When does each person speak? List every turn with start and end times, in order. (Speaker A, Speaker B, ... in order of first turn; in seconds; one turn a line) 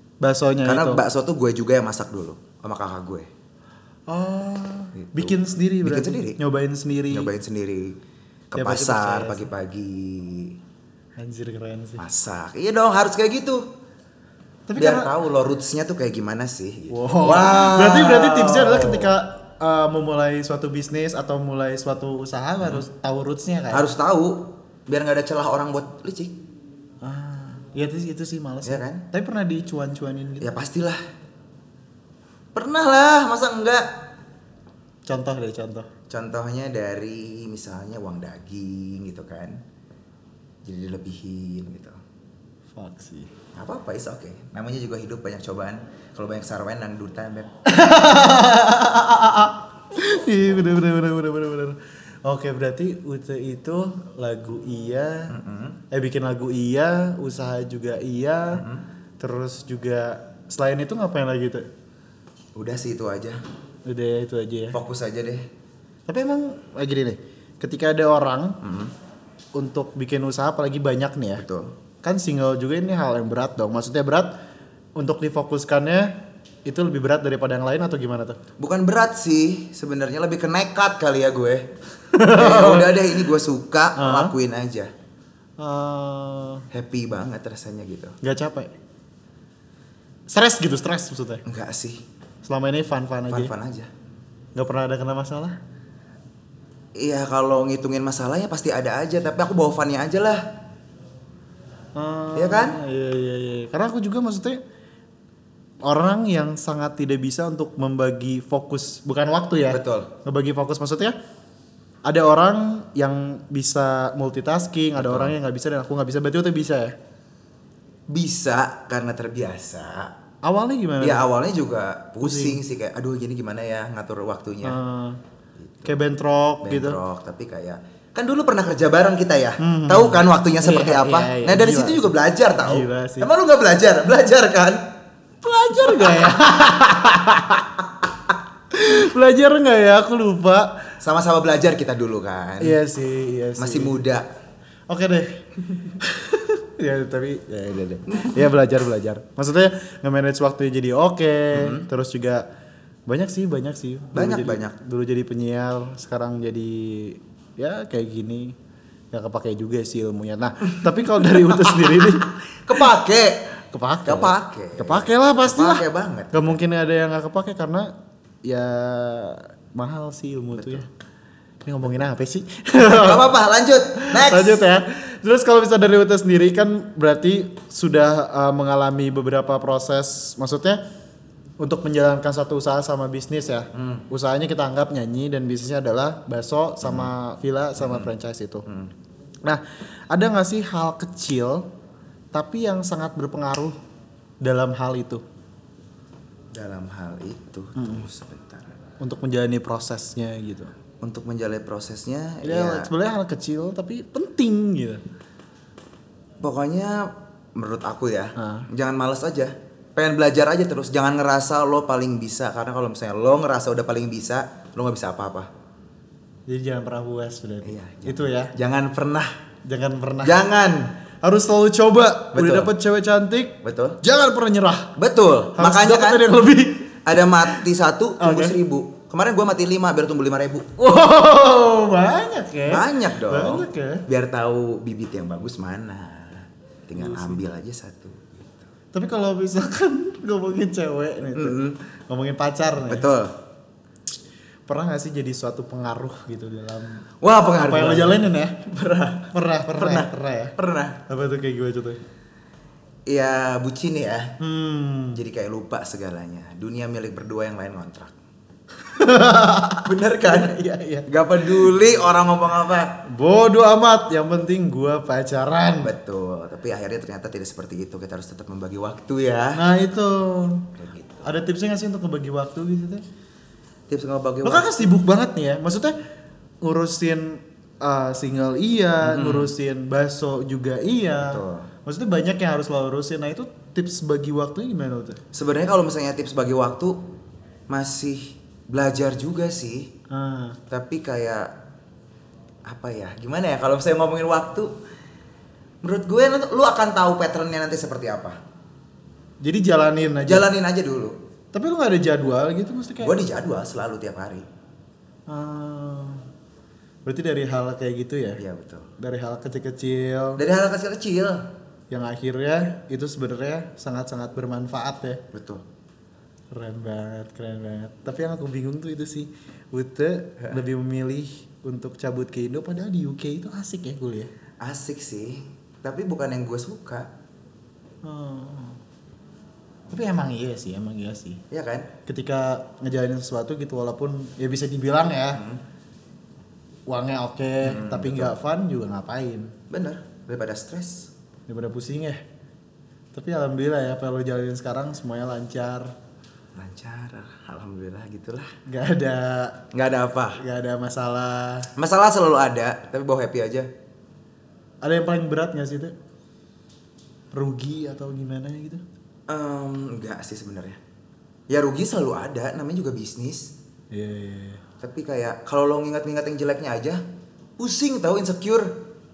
Speaker A: 0.2-1.0
Speaker B: 0.6-3.3
Speaker A: 4.1-7.3
Speaker B: 4.9-6.4
Speaker B: 7.1-8.0
Speaker B: 8.5-10.6
Speaker A: 8.6-9.5
Speaker A: 11.2-12.0
Speaker B: 12.0-13.7
Speaker A: 14.7-15.1
Speaker B: 14.8-19.1
Speaker A: 16.9-23.9
Speaker B: 23.7-26.4
Speaker A: 27.0-30.5
Speaker B: 28.6-29.0
Speaker B: 30.4-31.0
Speaker B: 32.5-33.9
Speaker A: 35.1-35.9
Speaker B: 36.1-39.6
Speaker B: 40.6-42.0
Speaker A: 42.8-43.3
Speaker B: 43.5-47.5
Speaker A: 47.6-55.4
Speaker B: 55.3-55.8
Speaker A: 55.9-58.6
Speaker B: 58.5-58.8
Speaker A: 59.2-61.6
Speaker B: 62.5-63.4
Speaker A: 63.9-64.8
Speaker B: 64.7-65.5
Speaker A: 66.1-68.6
Speaker B: 68.6-68.9
Speaker A: 69.6-71.4
Speaker B: 71.4-71.7
Speaker A: 72.0-74.3
Speaker A: 75.0-78.4
Speaker B: 78.6-81.7
Speaker A: 82.1-83.0
Speaker B: 82.2-84.9
Speaker A: 84.0-84.3
Speaker A: 85.6-86.6
Speaker B: 86.7-88.1
Speaker A: 88.2-88.7
Speaker A: 90.3-91.4
Speaker B: 91.4-92.0
Speaker A: 92.4-93.5
Speaker B: 93.3-93.9
Speaker A: 94.6-95.6
Speaker B: 96.9-100.5
Speaker A: 102.0-104.6
Speaker B: 102.3-102.8
Speaker A: 105.8-111.1
Speaker B: 109.7-110.1
Speaker A: 112.0-116.9
Speaker B: 115.0-115.3
Speaker B: 118.1-120.1
Speaker A: 120.4-121.2
Speaker B: 121.0-124.8
Speaker A: 122.2-122.6
Speaker A: 124.6-125.2
Speaker B: 125.6-126.0
Speaker A: 125.8-127.0
Speaker B: 126.6-134.8
Speaker A: 129.6-132.1
Speaker A: 132.6-133.3
Speaker A: 135.4-137.8
Speaker B: 135.8-136.3
Speaker A: 138.7-140.9
Speaker B: 141.0-142.8
Speaker A: 142.6-144.0
Speaker B: 143.6-144.3
Speaker A: 144.9-152.4
Speaker B: 148.1-148.4
Speaker B: 151.5-151.9
Speaker A: 153.1-158.6
Speaker B: 154.1-154.8
Speaker A: 159.1-162.3
Speaker B: 161.7-162.1
Speaker B: 162.6-163.5
Speaker A: 163.7-170.9
Speaker B: 164.1-166.6
Speaker B: 170.5-170.9
Speaker A: 171.6-173.3
Speaker B: 172.8-174.6
Speaker A: 173.9-180.8
Speaker A: 181.6-188.6
Speaker B: 183.7-184.0
Speaker B: 186.8-187.1
Speaker B: 187.8-188.1
Speaker B: 188.7-188.9
Speaker A: 189.4-191.7
Speaker A: 192.3-193.8
Speaker A: 194.4-195.2
Speaker B: 196.5-198.8
Speaker A: 197.8-198.1
Speaker A: 199.0-200.7
Speaker B: 201.0-202.9
Speaker A: 202.4-205.0
Speaker B: 206.4-215.5
Speaker A: 208.4-208.7
Speaker A: 216.5-218.5
Speaker B: 217.6-219.3
Speaker A: 219.7-220.4
Speaker B: 220.2-220.9
Speaker A: 221.2-224.9
Speaker B: 222.3-222.7
Speaker B: 223.6-224.0
Speaker B: 224.9-226.4
Speaker A: 225.6-227.6
Speaker B: 227.1-230.7
Speaker A: 228.2-228.6
Speaker A: 230.8-234.0
Speaker B: 232.7-238.7
Speaker A: 237.0-237.4
Speaker A: 238.9-241.6
Speaker B: 241.3-241.8
Speaker A: 242.1-243.1
Speaker B: 242.9-243.4
Speaker A: 244.7-248.7
Speaker B: 247.2-251.0
Speaker A: 249.3-250.6
Speaker A: 251.1-252.0
Speaker B: 253.1-254.3
Speaker A: 254.4-255.2
Speaker B: 255.1-258.1
Speaker A: 258.9-261.1
Speaker B: 259.8-263.0
Speaker A: 263.1-265.9
Speaker B: 265.8-269.6
Speaker A: 269.6-270.7
Speaker B: 270.8-271.3
Speaker A: 271.2-273.0
Speaker B: 273.9-274.9
Speaker A: 274.4-275.9
Speaker A: 276.6-285.2
Speaker B: 279.0-279.5
Speaker B: 281.3-281.7
Speaker B: 285.3-287.0
Speaker B: 287.7-289.9
Speaker A: 290.1-290.6
Speaker B: 290.7-291.5
Speaker B: 292.6-294.8
Speaker B: 295.8-298.4
Speaker A: 299.4-300.5
Speaker B: 300.2-301.2
Speaker A: 301.5-303.1
Speaker B: 303.0-304.5
Speaker A: 305.3-306.2
Speaker A: 307.1-308.4
Speaker B: 308.4-308.9
Speaker A: 309.0-310.4
Speaker B: 310.4-311.5
Speaker A: 311.9-315.2
Speaker B: 315.3-315.6
Speaker A: 316.5-324.3
Speaker B: 324.6-327.1
Speaker A: 328.0-328.8
Speaker A: 329.9-331.4
Speaker B: 331.5-331.9
Speaker A: 332.1-335.4
Speaker B: 335.3-335.6
Speaker A: 336.9-339.5
Speaker B: 337.6-338.4
Speaker B: 339.7-341.1
Speaker A: 341.5-342.2
Speaker A: 343.1-345.9
Speaker B: 346.6-348.5
Speaker A: 348.7-349.6
Speaker B: 349.7-350.4
Speaker A: 350.3-351.7
Speaker B: 351.8-353.7
Speaker A: 354.8-355.9
Speaker A: 357.3-358.8
Speaker B: 359.3-360.8
Speaker B: 361.5-363.5
Speaker A: 363.9-364.6
Speaker B: 364.8-367.0
Speaker B: 367.6-368.8